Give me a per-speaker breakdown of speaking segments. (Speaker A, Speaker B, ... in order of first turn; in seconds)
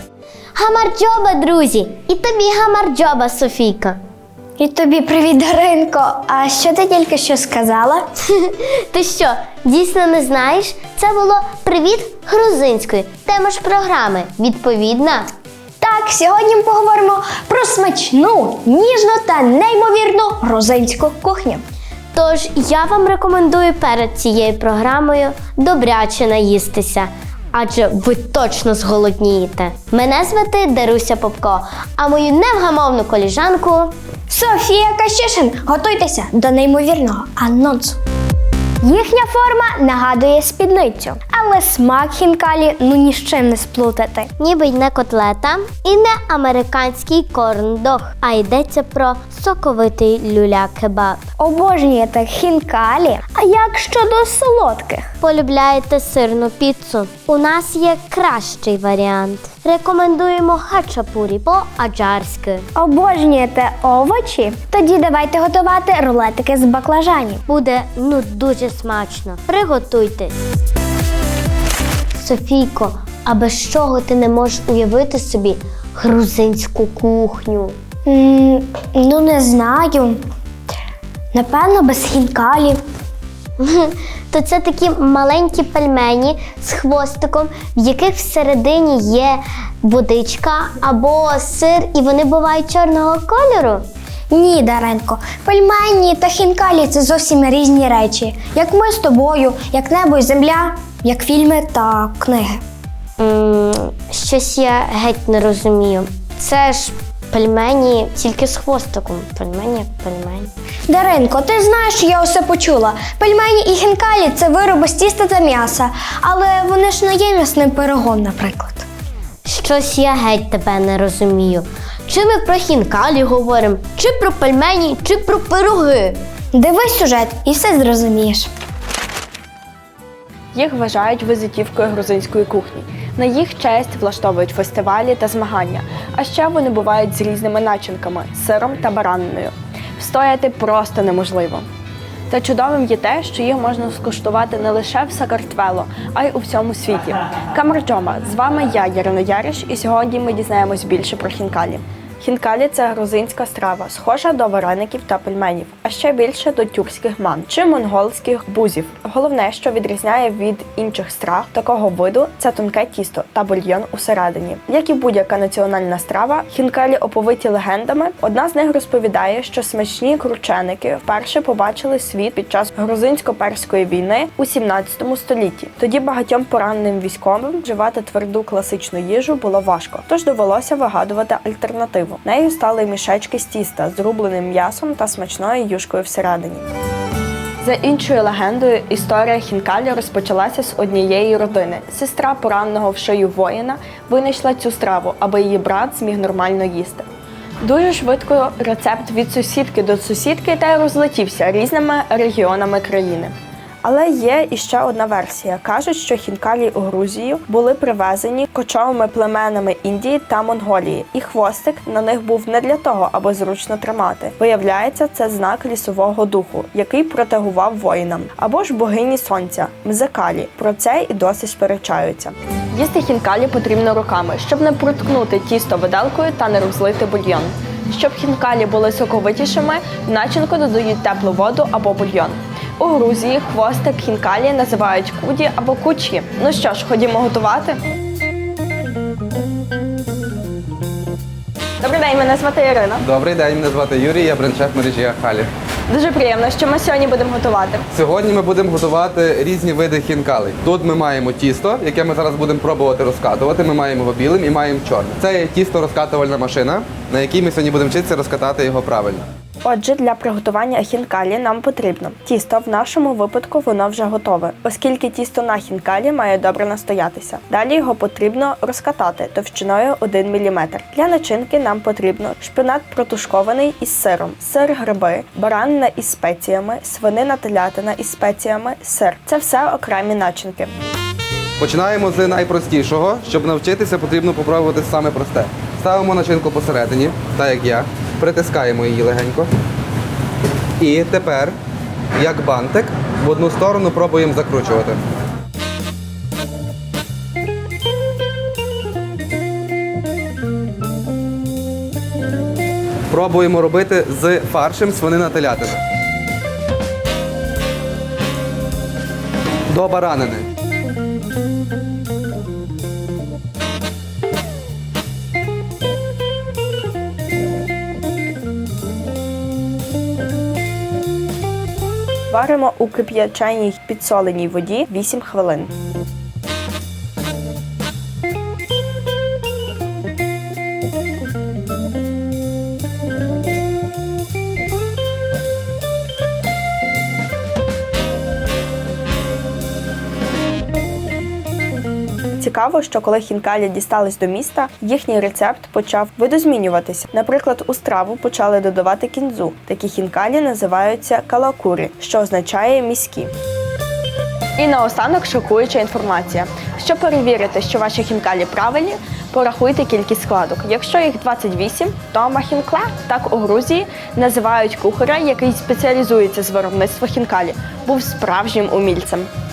Speaker A: 0.6-4.0, 8.2-15.3, 22.1-34.0, 44.4-51.3, 55.2-62.7, 67.5-70.3, 72.2-77.8, 83.6-93.8, 103.2-110.5, 119.5-126.2
Speaker B: 4.6-8.1, 15.8-21.6, 34.3-38.0, 38.8-44.3, 51.4-55.1, 62.8-67.4, 78.1-80.2, 81.3-82.8, 94.3-102.6, 110.9-118.9, 126.5-128.5
Speaker C: 130.5-141.7, 142.3-186.7, 187.6-197.1, 197.6-237.8, 241.8-243.0, 245.9-247.8, 259.6-280.7, 322.3-325.7, 342.4-353.3, 354.6-369.3
Speaker D: 243.0-245.5, 247.9-259.2, 281.6-289.5, 290.8-291.5, 292.2-295.0, 303.1-305.8, 309.7-310.5